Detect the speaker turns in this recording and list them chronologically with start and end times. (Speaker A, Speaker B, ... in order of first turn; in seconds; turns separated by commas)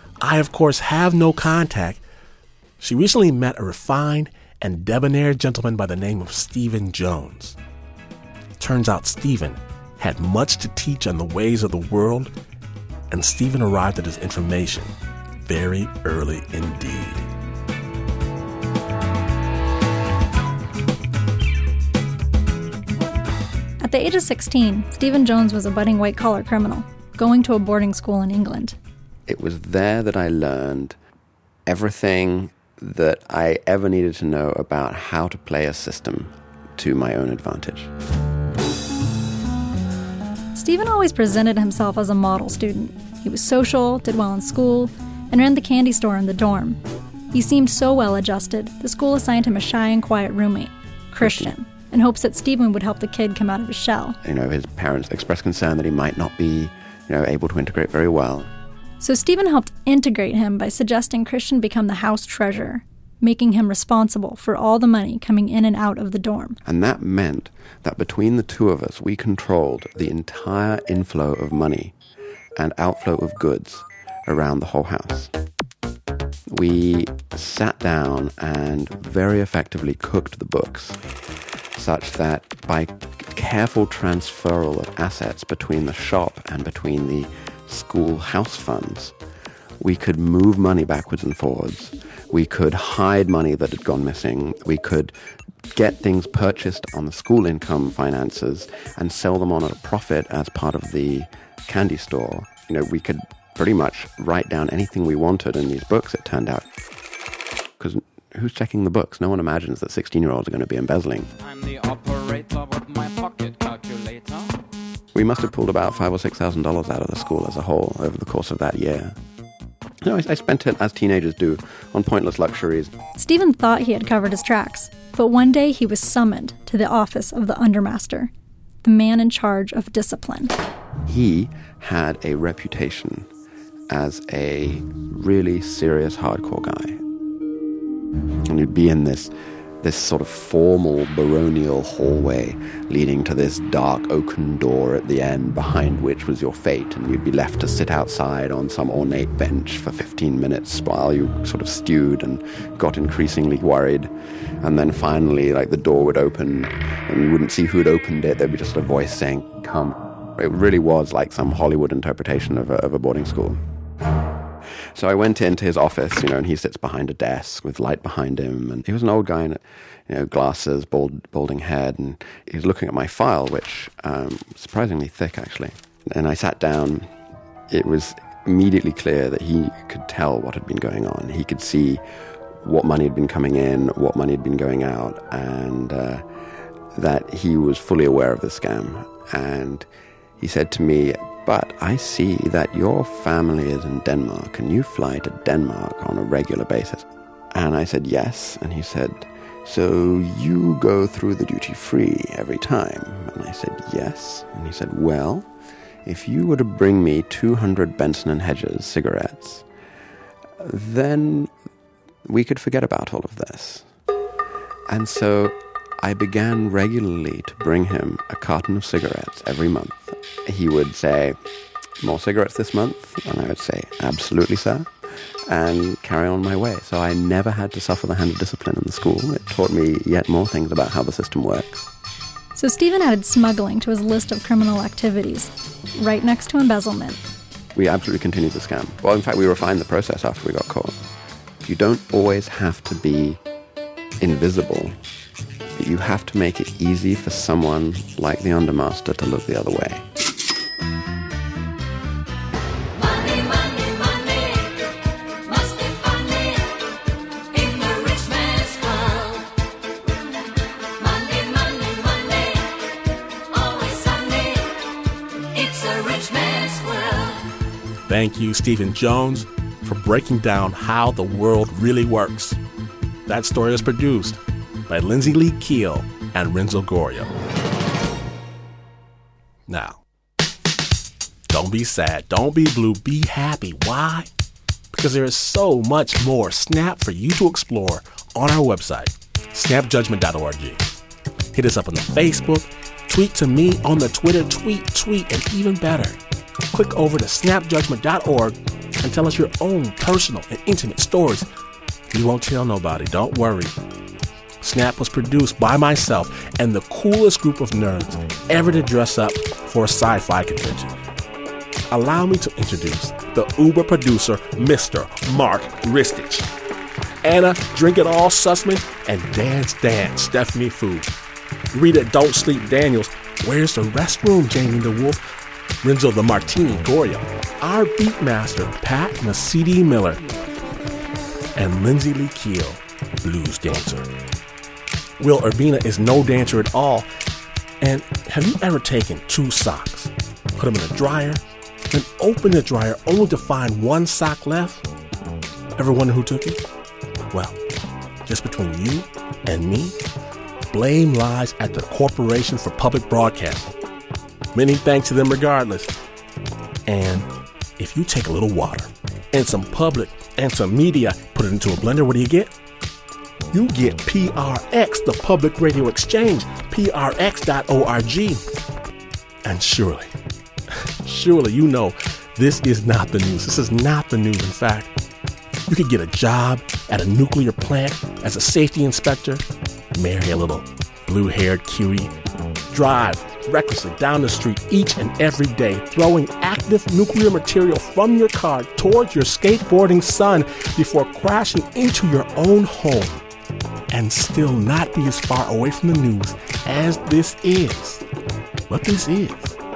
Speaker A: 0.2-2.0, Speaker A: 2.8-7.5, Speaker A: 8.6-12.3, Speaker A: 13.1-17.3, Speaker B: 23.8-28.8, Speaker C: 29.3-30.9, Speaker C: 31.7-37.9, Speaker B: 40.5-46.8, Speaker B: 47.3-54.2, Speaker C: 51.2-51.5, Speaker C: 54.2-58.5, Speaker B: 59.0-66.6, Speaker C: 66.6-71.9, Speaker C: 72.5-75.3, Speaker C: 76.5-81.0, Speaker C: 81.8-89.1, Speaker C: 89.8-95.1, Speaker C: 95.7-106.6, Speaker C: 107.8-111.3, Speaker D: 111.4-114.6, Speaker C: 115.1-119.1, Speaker C: 120.0-122.9, Speaker B: 123.2-128.3, Speaker B: 128.8-130.5, Speaker C: 131.1-133.3, Speaker C: 133.9-137.0, Speaker C: 138.5-154.1, Speaker C: 154.6-163.6, Speaker C: 164.9-177.1, Speaker C: 177.7-182.0, Speaker C: 182.6-186.2, Speaker C: 186.9-189.9, Speaker C: 190.4-205.5, Speaker C: 206.0-209.6, Speaker C: 210.6-211.5, Speaker C: 212.2-213.8, Speaker C: 214.9-221.4, Speaker C: 222.0-224.9, Speaker C: 225.5-231.9, Speaker B: 232.5-237.2, Speaker C: 237.7-241.0, Speaker C: 241.6-243.4, Speaker C: 244.2-245.0, Speaker C: 245.8-250.0, Speaker E: 252.9-254.9, Speaker E: 255.4-256.8, Speaker E: 257.5-259.5, Speaker E: 261.0-262.8, Speaker E: 263.5-264.8, Speaker E: 265.5-267.4, Speaker A: 268.1-272.6, Speaker A: 273.3-277.3, Speaker A: 279.7-280.0, Speaker A: 281.5-284.3, Speaker A: 284.9-290.8, Speaker A: 291.5-296.2, Speaker A: 296.7-301.4, Speaker A: 302.1-303.7, Speaker A: 304.6-310.9, Speaker A: 311.9-316.5, Speaker A: 317.2-321.1, Speaker A: 321.7-325.2, Speaker A: 325.8-330.2, Speaker A: 331.5-334.1, Speaker A: 335.2-337.1, Speaker A: 337.8-341.4, Speaker A: 341.9-344.8, Speaker A: 345.8-346.6, Speaker A: 347.3-347.6, Speaker A: 348.2-349.9, Speaker A: 350.7-353.7, Speaker A: 354.5-355.9, Speaker A: 356.9-362.5, Speaker A: 363.5-368.4, Speaker A: 369.4-370.1, Speaker A: 371.0-374.9, Speaker A: 375.7-379.4, Speaker A: 379.9-382.1, Speaker A: 382.7-393.2, Speaker A: 393.9-398.0, Speaker A: 398.7-399.6